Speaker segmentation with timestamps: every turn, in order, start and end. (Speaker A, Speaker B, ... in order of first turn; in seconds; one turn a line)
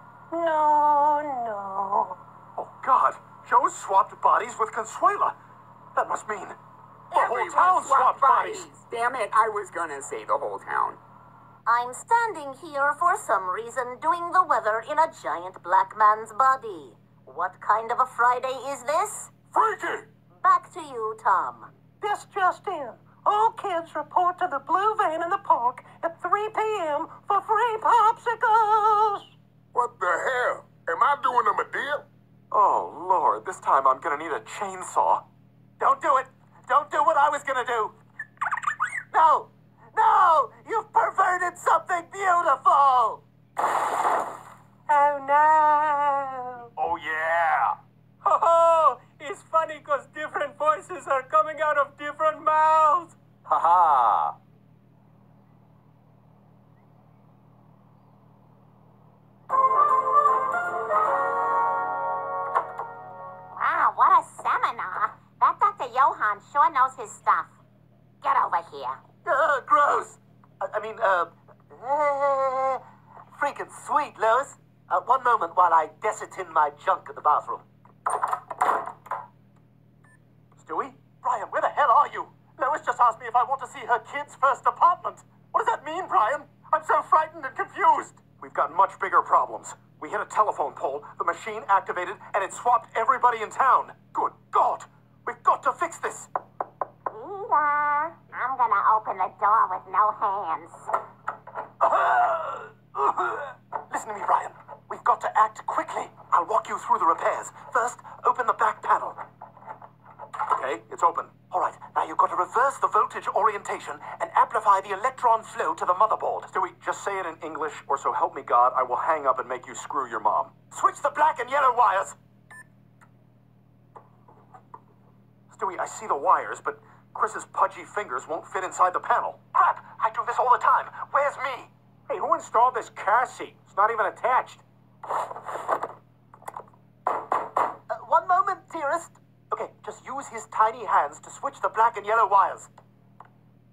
Speaker A: 0.3-2.2
Speaker B: 2.5-5.3
Speaker B: 5.9-6.6
Speaker B: 7.1-8.7
Speaker C: 7.1-11.0
Speaker D: 11.7-16.9
Speaker D: 17.6-19.1
Speaker B: 19.6-19.9
Speaker E: 19.7-20.0
Speaker D: 20.4-21.7
Speaker A: 22.0-29.3
Speaker E: 29.7-32.0
Speaker B: 32.5-35.2
Speaker B: 35.8-37.9
Speaker B: 39.1-43.2
Speaker A: 44.9-46.7
Speaker B: 46.8-47.8
Speaker A: 48.2-53.1
Speaker B: 53.5-54.3
Speaker D: 63.5-67.5
Speaker D: 68.2-69.0
Speaker B: 69.2-72.8
Speaker B: 73.3-77.6
Speaker B: 80.6-96.3
Speaker D: 97.1-100.9
Speaker B: 101.8-109.2
Speaker B: 110.4-122.2
Speaker B: 125.5-134.6
Speaker B: 137.9-142.7